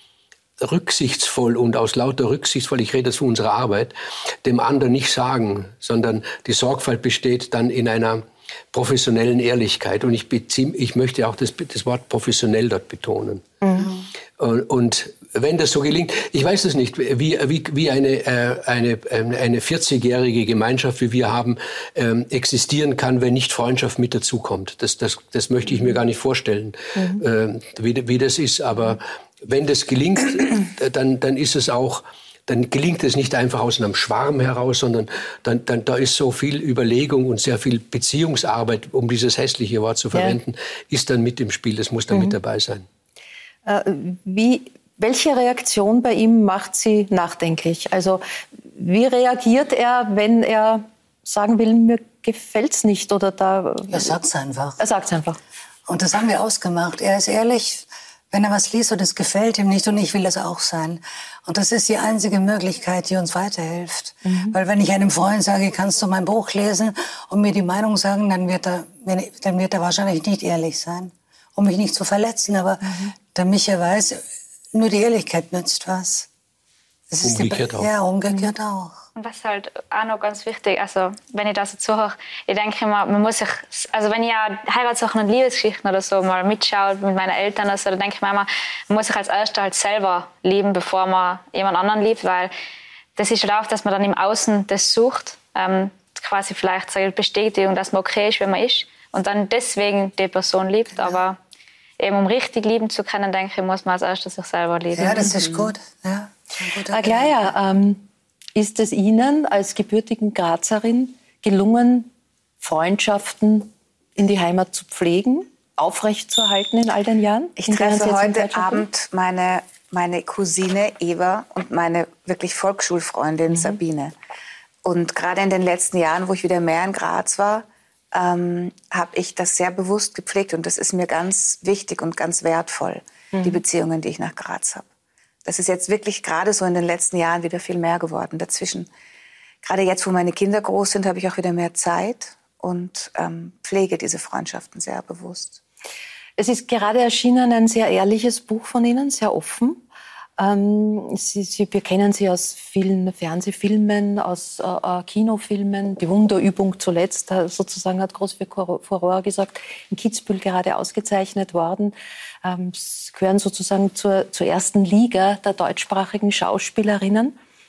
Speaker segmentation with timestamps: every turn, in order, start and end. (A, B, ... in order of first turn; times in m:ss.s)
0:00.6-0:13.4 A
0:13.6-0:13.9 B
0:14.4-0:42.9 A
0:27.0-0:27.2 B
0:43.7-0:54.2 B
0:53.9-0:54.8 C
0:54.8-0:55.4 B
0:55.9-1:14.2 C
1:04.2-1:04.6 B
1:12.9-1:13.1 B
1:14.7-1:16.3 C
1:17.1-1:19.0 C
1:17.2-1:17.9 A
1:19.2-1:32.5 D
1:33.2-1:41.4 D
1:42.0-1:45.5 D
1:44.9-1:47.4 C
1:46.9-1:48.0 B
1:48.6-1:58.9 B
1:57.6-2:04.1 E
2:03.5-2:03.8 B
2:04.8-2:14.9 E
2:15.4-2:18.9 E
2:19.6-2:25.6 E
2:26.4-2:29.8 B
2:30.4-2:47.4 B